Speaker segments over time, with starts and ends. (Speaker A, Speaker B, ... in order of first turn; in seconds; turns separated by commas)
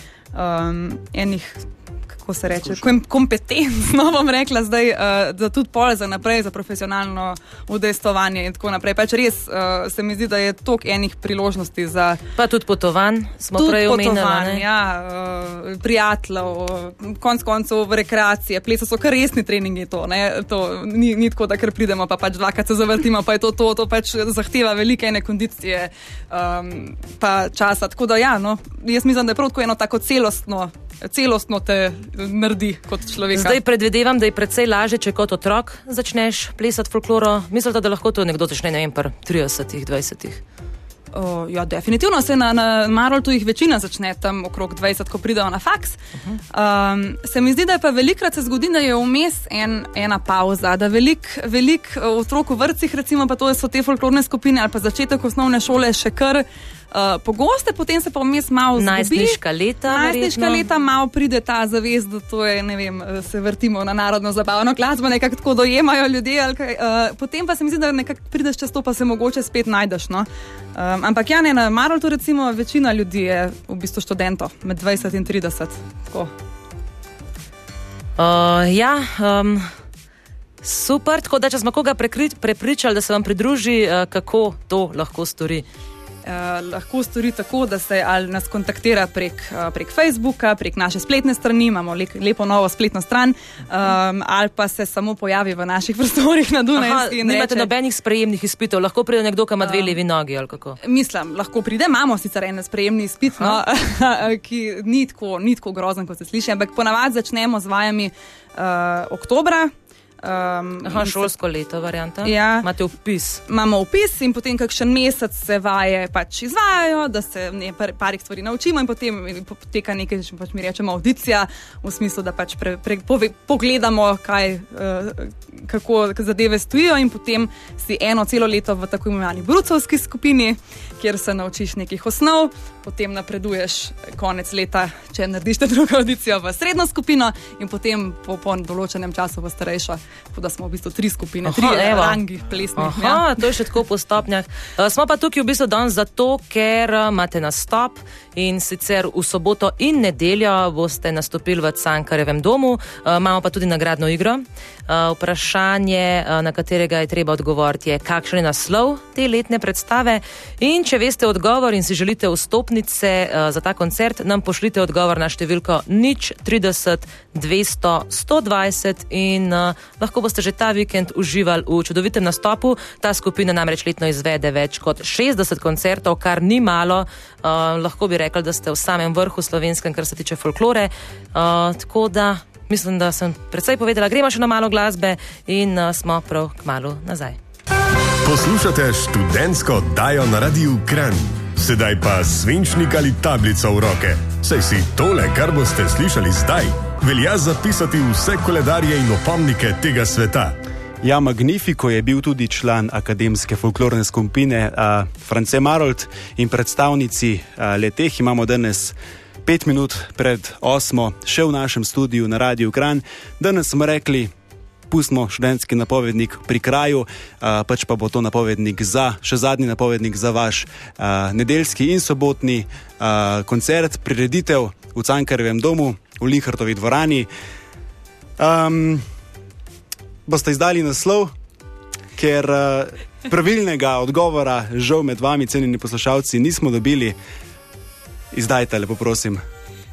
Speaker A: 0.3-12.2, Speaker B: 12.4-14.6, Speaker A: 13.6-33.6, Speaker B: 33.3-40.4, Speaker A: 41.1-46.0, Speaker A: 46.5-76.3, Speaker B: 58.8-60.6, Speaker B: 78.2-79.7, Speaker B: 80.6-85.7, Speaker A: 86.2-97.7, Speaker B: 96.8-100.8, Speaker A: 99.6-100.0, Speaker A: 100.8-111.3, Speaker B: 110.8-113.4, Speaker A: 112.2-112.7, Speaker A: 113.5-143.2, Speaker B: 141.4-142.2, Speaker B: 142.8-187.4, Speaker C: 188.2-200.6, Speaker D: 201.0-214.3, Speaker D: 214.9-227.3, Speaker D: 228.4-229.1, Speaker D: 230.3-231.3, Speaker D: 232.2-237.2, Speaker D: 238.3-239.4